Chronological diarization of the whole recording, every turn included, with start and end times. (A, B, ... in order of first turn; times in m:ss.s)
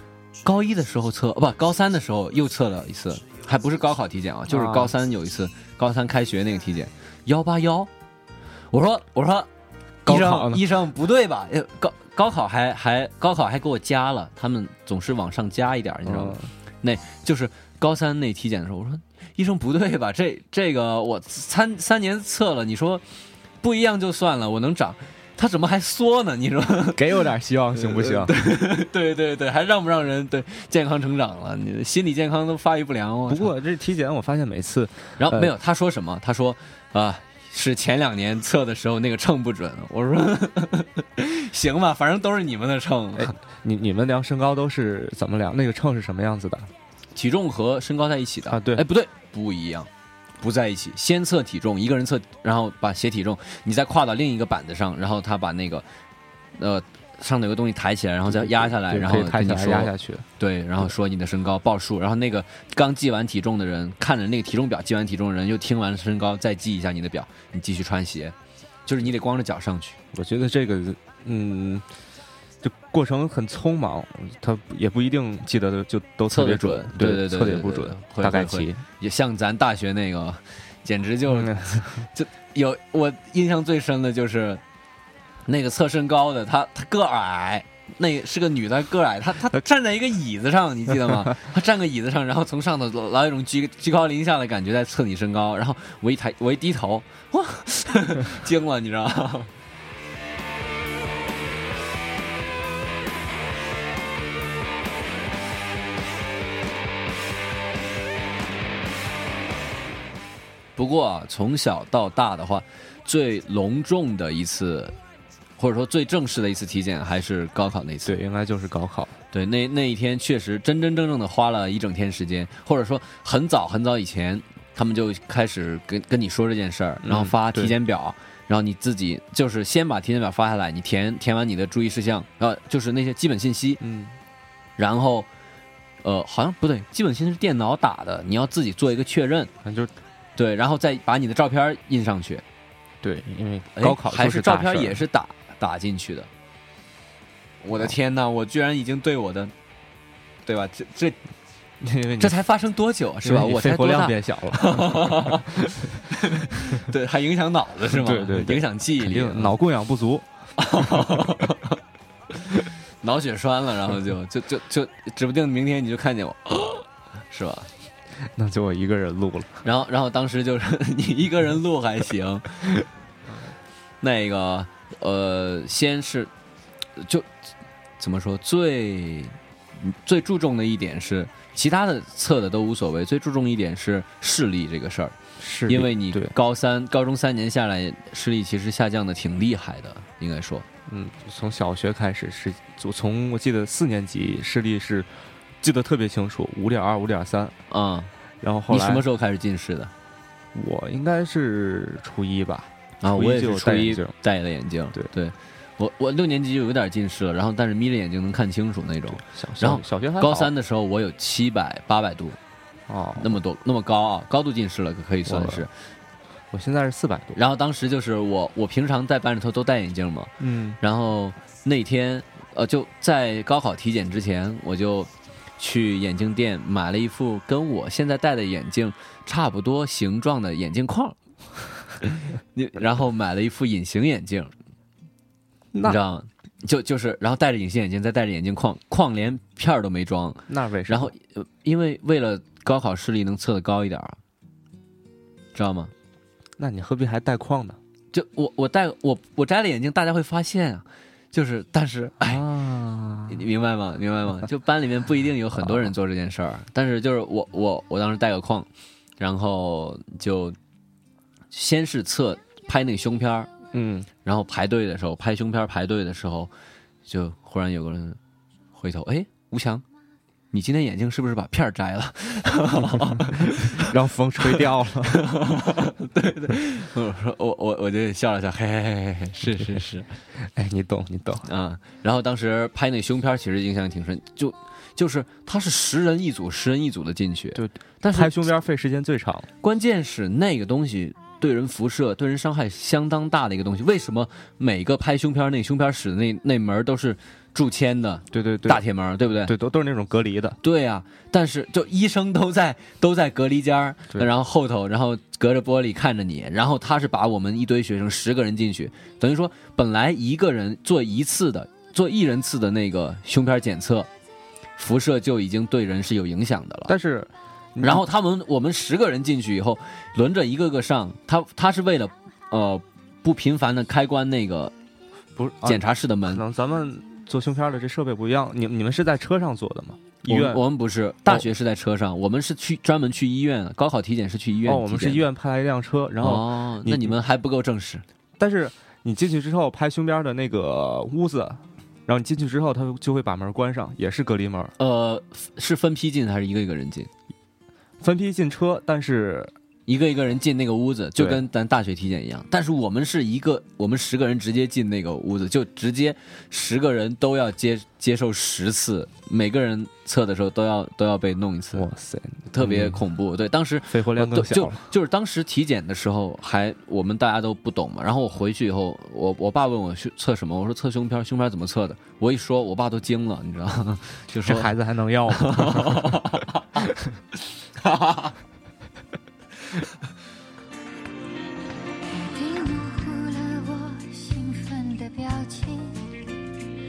0:00.4-0:07.9 A
0:04.5-0:04.9 B
0:08.7-0:09.5 A
0:10.0-0:23.0 A
0:10.1-0:10.7 B
0:16.1-0:16.5 B
0:23.6-0:27.2 A
0:26.9-0:28.4 B
0:27.8-0:33.5 A
0:33.3-0:35.5 B
0:35.2-0:43.3 A
0:43.2-0:46.7 B
0:47.2-0:55.9 A
0:48.5-0:48.8 B
0:56.6-1:08.4 A
0:58.3-1:00.3 B
1:08.9-1:10.0 A
1:10.1-1:11.9 B
1:12.6-1:18.8 B
1:16.3-1:24.6 A
1:21.3-1:22.1 B
1:25.5-1:39.5 A
1:50.8-1:55.0 A
1:55.6-1:58.2 A
1:58.1-1:59.2 B
1:59.3-2:13.8 A
2:07.0-2:07.7 B
2:13.8-2:14.2 B
2:14.8-2:15.3 A
2:16.0-2:19.5 A
2:19.6-2:19.9 B
2:20.4-2:22.4 A
2:23.0-2:25.0 B
2:23.8-2:26.3 A
2:27.6-2:29.5 A
2:30.5-2:31.2 A
2:31.8-2:32.4 B
2:32.2-2:39.6 A
2:33.2-2:35.4 B
2:37.9-2:40.3 B
2:40.6-2:41.8 A
2:43.0-2:47.7 A
2:48.3-2:49.6 B
2:49.6-2:52.6 A
2:54.0-2:56.3 A
2:57.0-2:57.3 A
2:58.0-3:10.7 A
3:05.4-3:06.4 B
3:10.9-3:15.1 B
3:15.6-3:17.6 B
3:17.7-3:18.1 A
3:18.4-3:19.0 B
3:18.7-3:19.9 A
3:20.5-3:24.1 B
3:23.0-3:32.4 A
3:29.1-3:30.5 B
3:32.9-3:33.4 B
3:33.2-3:35.7 A
3:35.3-3:35.7 B
3:36.5-3:37.4 B
3:37.4-3:51.2 A
3:40.4-3:40.8 B
3:52.0-3:54.5 A
3:55.7-3:56.0 B
3:55.8-4:04.2 A
4:00.5-4:01.1 B
4:05.6-4:05.9 A
4:06.6-4:07.8 B
4:08.1-4:12.4 A
4:12.2-4:13.4 B
4:13.3-4:18.7 A
4:19.2-4:20.6 A
4:21.5-4:23.5 A
4:23.7-4:24.1 B
4:24.2-4:26.5 A
4:27.1-4:28.2 A
4:28.7-4:29.8 A
4:30.5-4:34.0 A
4:33.3-4:35.2 B
4:34.5-4:40.1 A
4:40.4-4:41.5 B
4:41.4-4:48.5 A
4:47.6-4:49.5 B
4:49.6-4:59.5 A
4:58.3-4:58.8 B
4:59.4-5:00.6 B
5:00.6-5:14.1 A
5:14.8-5:16.9 A
5:16.9-5:18.0 B
5:17.8-5:24.7 A
5:25.4-5:30.6 B
5:25.6-5:26.4 A
5:30.3-5:35.3 A
5:34.7-5:37.2 B
5:36.2-5:38.0 A
5:38.4-5:44.7 B
5:44.8-5:47.1 A
5:48.0-5:49.5 B
5:49.9-6:01.9 A
6:01.7-6:03.0 B
6:02.5-6:14.7 A
6:03.9-6:04.9 B
6:14.4-6:16.2 B
6:15.3-6:16.9 A
6:17.8-6:18.4 A
6:22.1-6:26.3 C